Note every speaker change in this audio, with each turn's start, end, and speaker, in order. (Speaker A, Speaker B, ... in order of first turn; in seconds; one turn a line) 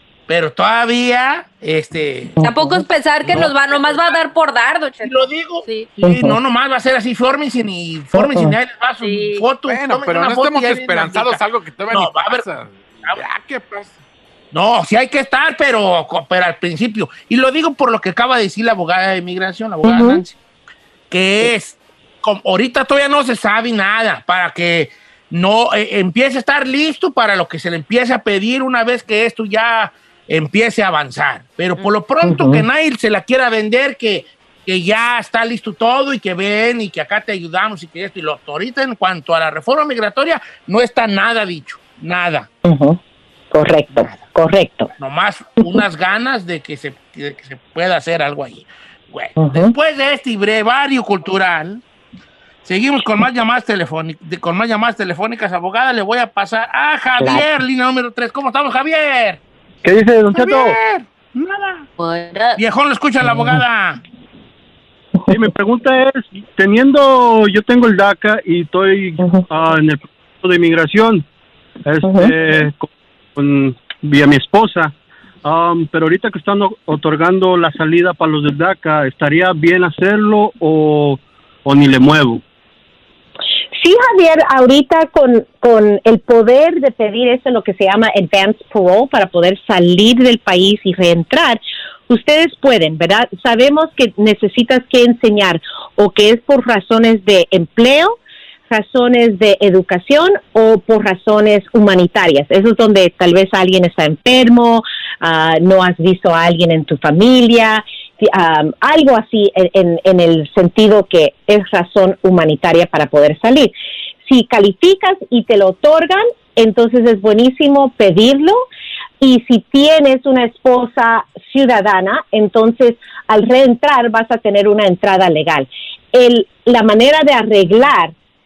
Speaker A: 0.3-2.4
Speaker B: 2.4-2.8
Speaker C: 2.4-5.9
Speaker A: 3.2-4.2
Speaker A: 5.0-12.5
Speaker B: 6.0-6.4
Speaker B: 8.2-8.6
Speaker C: 9.0-9.5
Speaker D: 9.7-13.9
Speaker A: 14.5-20.4
Speaker B: 19.8-20.2
Speaker A: 21.1-42.5
Speaker B: 32.2-32.7
Speaker B: 42.6-43.0
Speaker B: 43.5-44.9
Speaker A: 44.0-44.2
Speaker A: 45.0-51.8
Speaker B: 49.4-49.7
Speaker A: 52.6-59.4
Speaker B: 57.2-57.5
Speaker E: 59.8-60.8
Speaker A: 60.3-61.9
Speaker C: 62.0-62.6
Speaker A: 62.6-64.0
Speaker E: 65.3-71.2
Speaker E: 71.9-74.9
Speaker B: 72.0-72.3
Speaker E: 75.4-82.4
Speaker B: 83.8-98.2
Speaker B: 98.7-113.7
Speaker B: 114.2-118.6
Speaker B: 119.2-128.1